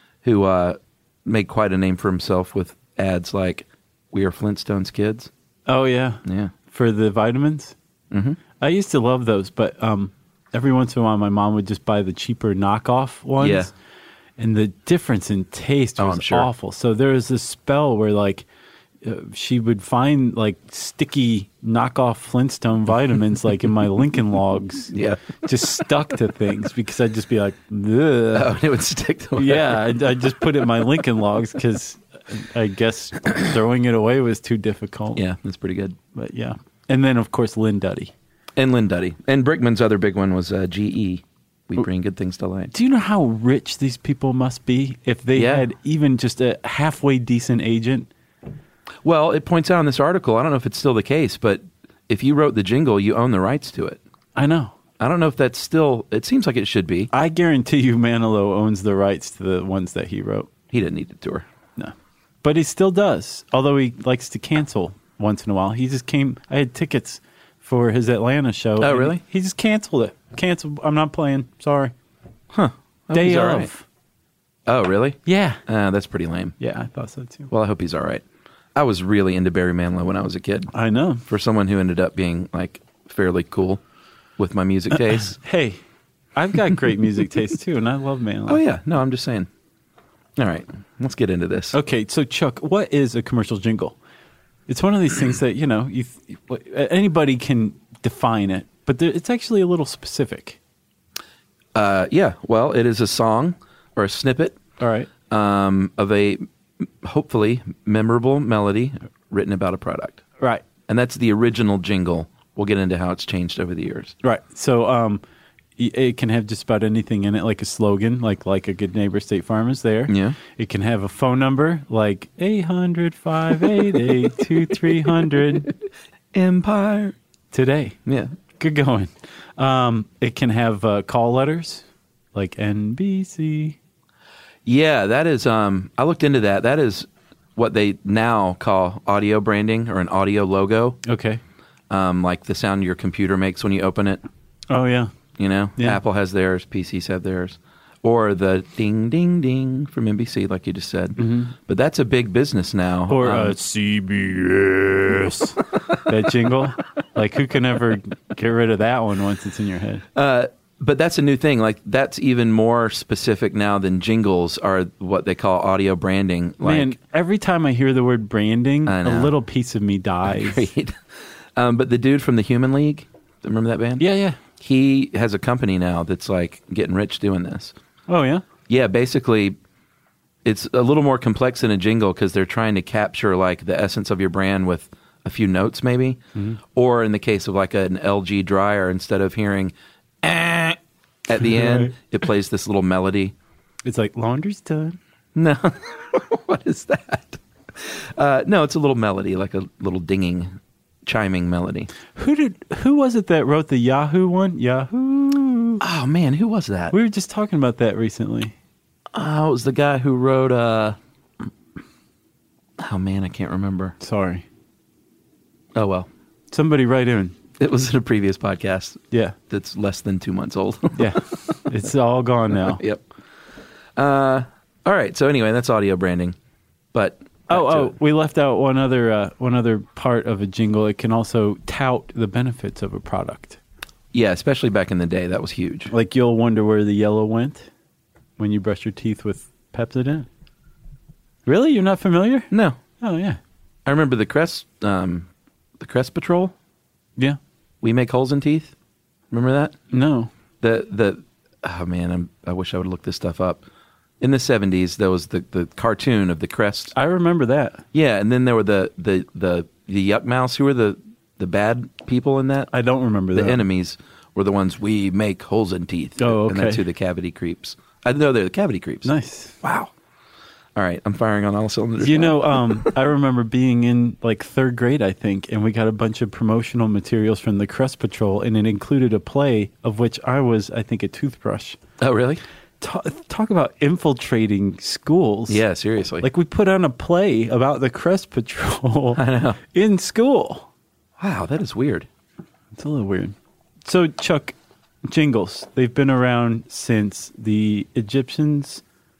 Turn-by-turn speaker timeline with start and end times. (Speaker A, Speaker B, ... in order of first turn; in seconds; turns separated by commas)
Speaker A: 0.2-5.3, Speaker B: 5.7-7.7, Speaker A: 6.2-6.5, Speaker A: 8.1-8.4, Speaker B: 8.6-13.7, Speaker A: 13.4-13.7, Speaker B: 14.4-18.4, Speaker A: 16.0-16.5, Speaker B: 19.0-28.6, Speaker A: 24.9-25.4, Speaker A: 28.3-30.1, Speaker B: 29.4-35.2, Speaker A: 35.1-36.0, Speaker B: 36.1-38.1, Speaker A: 38.5-42.7, Speaker B: 42.7-48.1, Speaker A: 45.4-45.6, Speaker A: 49.0-54.0, Speaker B: 54.4-54.7, Speaker A: 55.0-57.1, Speaker B: 57.1-60.5, Speaker A: 60.7-61.5, Speaker B: 61.8-71.9, Speaker A: 68.8-69.2, Speaker A: 72.5-73.7, Speaker B: 73.1-73.8, Speaker A: 74.7-76.5, Speaker B: 75.2-75.6, Speaker B: 76.6-77.5, Speaker A: 77.5-78.2, Speaker A: 78.7-80.7, Speaker B: 80.7-81.2, Speaker A: 81.3-83.8, Speaker A: 84.4-85.4, Speaker B: 85.0-85.8, Speaker B: 86.3-88.6, Speaker A: 88.5-89.5, Speaker A: 90.4-91.7, Speaker B: 91.7-94.0, Speaker B: 94.7-100.6, Speaker A: 101.7-104.6, Speaker B: 104.8-105.1, Speaker A: 105.3-110.2, Speaker A: 110.9-114.1, Speaker B: 114.2-115.2, Speaker B: 115.8-125.7, Speaker A: 120.1-120.4, Speaker A: 126.3-127.1, Speaker B: 127.5-128.0, Speaker A: 128.1-128.3, Speaker B: 128.6-133.8, Speaker A: 134.7-141.0, Speaker B: 141.0-141.4, Speaker A: 141.9-144.2, Speaker B: 144.7-145.1, Speaker A: 145.4-153.5, Speaker B: 151.2-151.5, Speaker B: 153.1-160.0, Speaker A: 160.1-166.9, Speaker B: 166.6-170.7, Speaker A: 168.8-169.3, Speaker A: 170.3-170.9, Speaker A: 171.6-174.0, Speaker B: 174.0-174.4, Speaker A: 174.6-177.7, Speaker B: 178.1-178.4, Speaker A: 178.7-179.6, Speaker A: 180.4-186.2, Speaker A: 186.7-193.3, Speaker B: 191.4-191.9, Speaker B: 193.8-195.0, Speaker A: 195.3-201.9, Speaker B: 202.1-205.8, Speaker A: 205.8-206.9, Speaker B: 206.9-208.5, Speaker A: 209.1-211.0, Speaker A: 212.8-213.9, Speaker B: 214.0-214.4, Speaker A: 215.7-216.1, Speaker B: 216.5-217.3, Speaker A: 217.6-221.1, Speaker B: 220.9-222.8, Speaker A: 222.7-223.0, Speaker A: 223.9-226.3, Speaker A: 226.9-227.9, Speaker B: 227.5-233.6, Speaker A: 234.1-235.9, Speaker B: 235.9-237.7, Speaker B: 238.4-240.3, Speaker B: 241.4-242.5, Speaker A: 242.5-242.8, Speaker B: 243.0-243.4, Speaker A: 243.8-245.3, Speaker A: 245.8-246.5, Speaker A: 247.8-248.7, Speaker A: 249.3-249.8, Speaker B: 249.9-250.3, Speaker A: 250.6-253.6, Speaker A: 254.2-256.9, Speaker B: 256.9-257.8, Speaker A: 257.9-262.7, Speaker B: 262.7-263.6, Speaker A: 263.3-269.1, Speaker B: 266.2-266.8, Speaker B: 269.0-269.6, Speaker A: 269.6-269.9, Speaker A: 270.7-272.9, Speaker B: 272.0-281.8, Speaker A: 282.0-282.4, Speaker B: 282.8-285.6, Speaker A: 285.5-286.2, Speaker B: 286.2-290.7, Speaker A: 289.1-289.6, Speaker A: 291.2-292.1, Speaker B: 292.8-294.5, Speaker B: 295.1-298.8